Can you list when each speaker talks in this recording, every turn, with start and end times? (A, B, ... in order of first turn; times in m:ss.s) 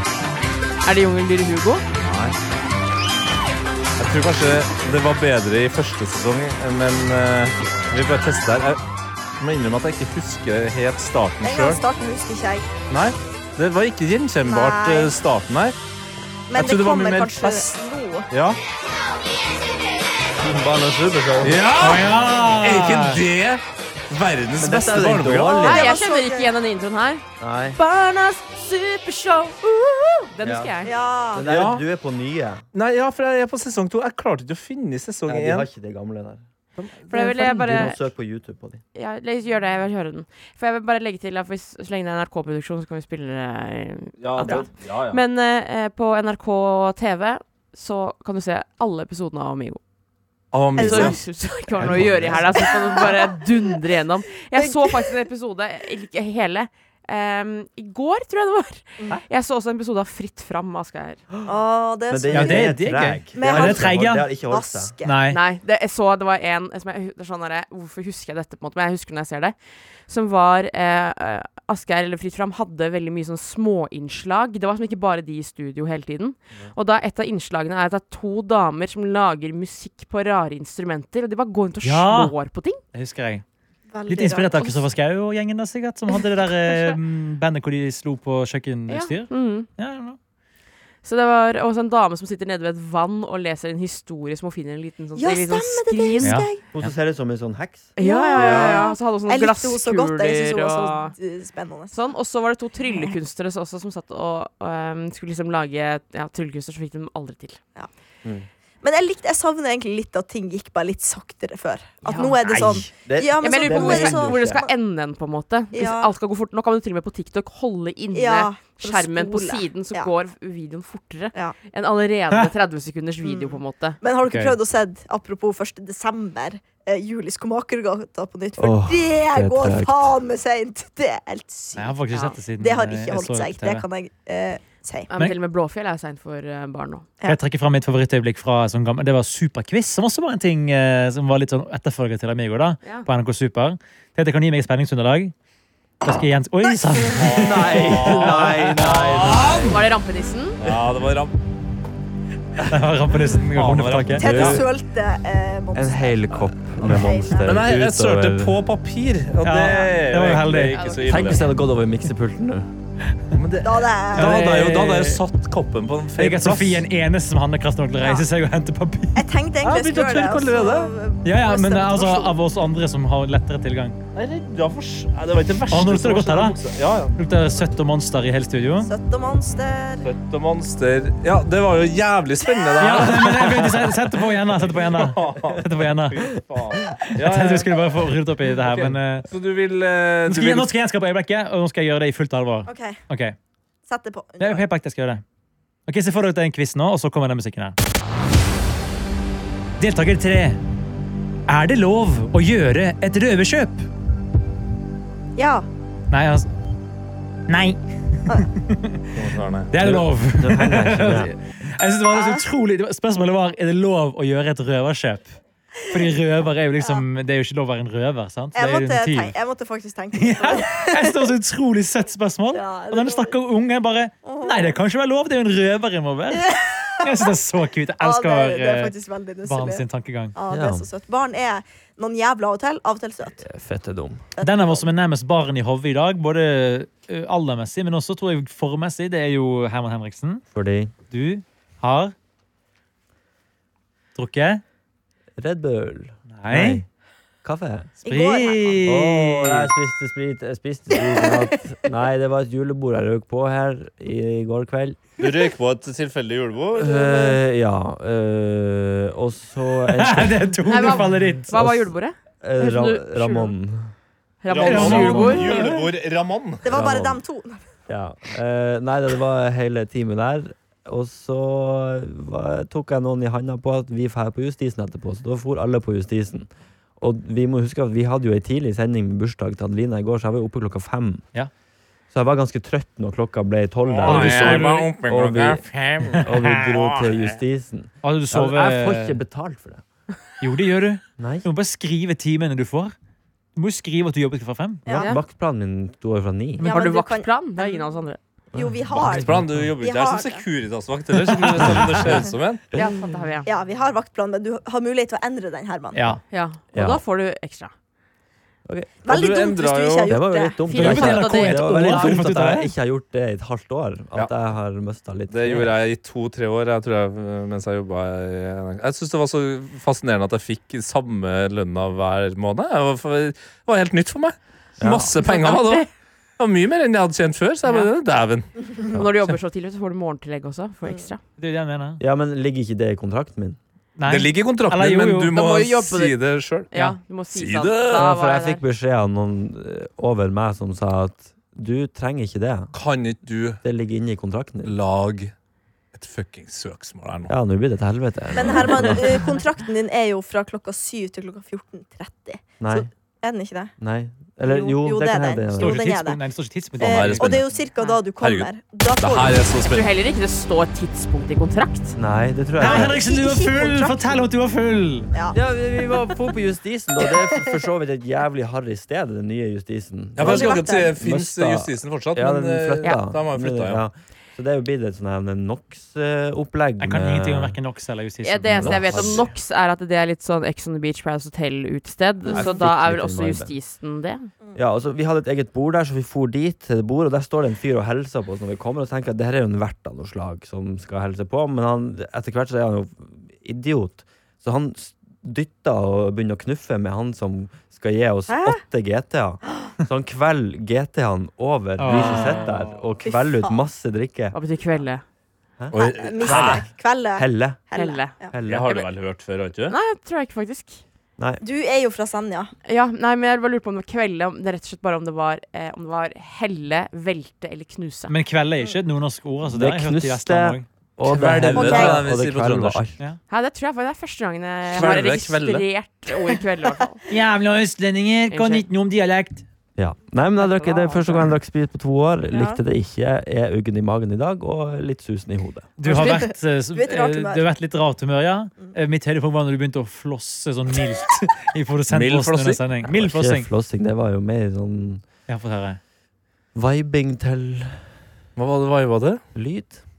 0:00.8-0:01.8 A
0:02.0-0:02.3 B
0:04.0-0:08.8 B
0:09.4-0:11.8 B
0:11.4-0:12.7 C
0:12.9-0:15.8 B
0:14.4-0:15.1 C
0:16.5-0:18.3 C
0:16.5-0:17.8 B
0:18.3-0:18.6 B
0:20.4-0:21.6 D
0:21.4-0:25.7 B
0:21.8-0:23.2 E
0:24.6-0:26.0 D
0:25.5-0:26.5 C
0:25.6-0:27.2 A
0:27.4-0:27.8 D
0:27.7-0:30.9 A
0:30.4-0:32.6 D
0:30.8-0:31.4 C
0:31.4-0:31.8 B
0:32.7-0:35.7 B
0:35.3-0:36.4 D
0:36.8-0:37.8 B
0:37.1-0:38.0 A
0:37.2-0:38.8 D
0:38.9-0:49.8 A
0:44.2-0:45.2 B
0:50.5-0:51.2 B
0:50.8-0:51.2 C
0:50.8-1:01.2 A
0:51.8-0:52.6 D
0:52.3-0:53.5 C
0:54.6-0:55.1 C
1:01.4-1:02.8 C
1:02.1-1:04.9 D
1:02.3-1:04.3 E
1:03.3-1:03.9 C
1:04.5-1:05.2 C
1:05.0-1:05.4 E
1:05.3-1:09.5 A
1:10.1-1:22.8 A
1:21.8-1:22.3 E
1:22.9-1:23.4 E
1:23.9-1:24.8 C
1:24.1-1:30.2 E
1:28.9-1:29.7 A
1:31.0-1:36.4 A
1:35.2-1:36.6 C
1:36.2-1:36.9 E
1:36.7-1:38.8 D
1:38.0-1:41.1 A
1:38.0-1:42.0 C
1:41.9-1:47.6 A
1:48.8-1:54.7 C
1:52.0-1:52.8 A
1:52.4-1:54.6 D
1:53.4-2:04.0 A
1:55.7-1:56.1 C
1:58.1-2:00.1 C
2:03.2-2:12.0 C
2:04.2-2:04.6 E
2:08.6-2:10.1 D
2:11.8-2:13.8 E
2:12.6-2:15.1 C
2:15.1-2:17.1 A
2:17.2-2:25.3 E
2:26.0-2:29.5 E
2:27.2-2:29.8 B
2:27.3-2:29.8 D
2:29.6-2:30.6 A
2:30.6-2:31.3 B
2:32.7-2:34.6 E
2:33.5-2:34.6 B
2:34.2-2:37.7 C
2:34.2-2:34.6 D
2:35.7-2:38.6 D
2:37.4-2:41.5 B
2:39.4-2:40.8 E
2:40.7-2:41.4 A
2:41.1-2:42.7 D
2:43.3-2:46.8 B
2:43.6-2:44.5 C
2:44.1-2:45.2 E
2:46.2-2:49.2 E
2:48.0-2:48.2 C
2:49.2-2:52.4 C
2:49.6-2:50.9 B
2:51.2-2:54.0 E
2:54.1-2:57.2 B
2:55.7-2:56.6 E
2:57.2-2:58.9 E
2:58.8-3:00.1 C
3:00.0-3:04.0 B
3:02.8-3:06.2 E
3:04.7-3:07.8 B
3:07.1-3:09.3 E
3:08.6-3:10.7 B
3:10.3-3:13.4 E
3:12.6-3:13.0 C
3:13.9-3:14.6 C
3:14.4-3:15.2 E
3:15.9-3:17.8 E
3:19.8-3:20.6 E
3:21.5-3:23.8 E
3:25.4-3:25.6 C
3:26.1-3:26.5 E
3:27.5-3:29.1 E
3:29.1-3:29.7 B
3:29.7-3:35.4 E
3:29.8-3:31.3 D
3:32.1-3:32.4 C
3:35.9-3:39.3 E
3:38.5-3:41.2 C
3:40.1-3:48.9 E
3:42.5-3:43.3 C
3:44.2-3:44.8 C
3:46.4-3:47.1 C
3:48.0-3:53.4 C
3:49.4-3:50.3 E
3:50.5-3:50.9 D
3:53.4-3:54.2 D
3:54.4-3:54.8 C
3:54.4-4:00.4 E
4:00.5-4:00.9 D
4:01.1-4:02.1 E
4:04.1-4:04.6 E
4:05.4-4:06.8 D
4:06.3-4:06.8 E
4:07.4-4:07.9 D
4:08.0-4:08.8 C
4:08.0-4:09.7 E
4:08.8-4:15.1 D
4:15.2-4:17.4 B
4:16.7-4:20.7 D
4:19.9-4:21.5 E
4:20.7-4:23.5 A
4:21.5-4:21.9 D
4:22.4-4:23.9 D
4:24.4-4:25.7 A
4:24.5-4:27.0 B
4:24.6-4:25.8 E
4:26.6-4:27.6 C
4:26.7-4:27.2 D
4:27.9-4:41.2 D
4:42.1-4:49.8 D
4:43.9-4:47.2 B
4:44.0-4:44.9 E
4:48.0-4:49.2 E
4:50.4-4:52.9 E
4:51.2-4:51.5 D
4:53.6-4:54.8 E
4:54.8-4:55.1 C
4:54.9-4:56.7 D
4:54.9-4:55.2 A
4:56.6-4:57.9 C
4:56.6-4:58.2 A
4:58.5-4:59.5 D
4:58.5-5:00.4 C
4:59.0-5:02.6 B
5:01.7-5:02.1 D
5:02.7-5:03.5 A
5:03.4-5:06.1 C
5:05.9-5:06.2 E
5:06.3-5:07.7 A
5:06.7-5:07.0 D
5:08.6-5:09.0 D
5:09.0-5:10.6 C
5:09.1-5:10.2 B
5:10.0-5:15.7 D
5:10.7-5:12.2 A
5:10.7-5:12.7 E
5:15.3-5:25.9 B
5:24.8-5:25.1 D
5:25.2-5:25.9 A
5:26.4-5:28.5 B
5:27.6-5:27.9 A
5:28.9-5:31.2 A
5:31.4-5:32.0 E
5:32.0-5:33.6 D
5:34.0-5:35.3 E
5:34.1-5:36.7 B
5:35.3-5:36.2 A
5:36.7-5:38.6 A
5:37.3-5:38.0 B
5:37.9-5:42.7 D
5:42.7-5:43.6 B
5:43.6-5:44.7 D
5:44.6-5:45.3 B
5:45.9-5:47.3 B
5:47.3-5:49.2 D
5:48.3-5:53.7 C
5:52.6-5:52.9 D
5:53.8-5:55.8 D
5:54.4-5:56.2 C
5:55.6-5:57.4 E
5:56.8-5:57.5 B
5:56.8-5:59.5 C
5:58.2-5:59.9 B
5:59.6-6:01.9 A
6:01.9-6:03.0 D
6:02.6-6:05.1 E
6:02.6-6:04.2 C
6:05.3-6:17.6 D
6:10.2-6:13.8 B
6:10.2-6:11.0 C
6:16.8-6:19.1 E
6:18.2-6:24.3 A
6:18.6-6:19.3 D
6:22.3-6:22.6 C
6:22.3-6:23.5 D
6:24.5-6:44.4 D
6:38.3-6:38.6 C
6:41.8-6:42.4 E
6:43.0-6:43.6 C
6:44.3-6:45.0 A
6:45.6-6:46.6 D
6:45.7-6:46.7 B
6:45.7-6:48.3 C
6:47.1-6:47.6 D
6:47.7-6:48.2 A
6:48.3-6:48.7 D
6:48.4-6:49.8 B
6:49.7-6:50.8 A
6:51.4-6:52.5 C
6:52.6-6:58.1 A
6:58.1-7:00.6 E
6:59.5-7:03.0 D
7:01.0-7:02.8 B
7:01.5-7:02.0 C
7:03.3-7:07.0 A
7:04.7-7:05.6 B
7:07.1-7:09.4 E
7:08.3-7:08.6 A
7:09.8-7:15.7 D
7:10.4-7:11.3 A
7:12.3-7:12.6 C
7:15.8-7:23.5 E
7:15.8-7:17.5 C
7:21.9-7:22.6 B
7:22.9-7:25.0 D
7:25.3-7:25.8 E
7:26.5-7:27.8 D
7:28.4-7:29.2 B
7:29.3-7:29.8 D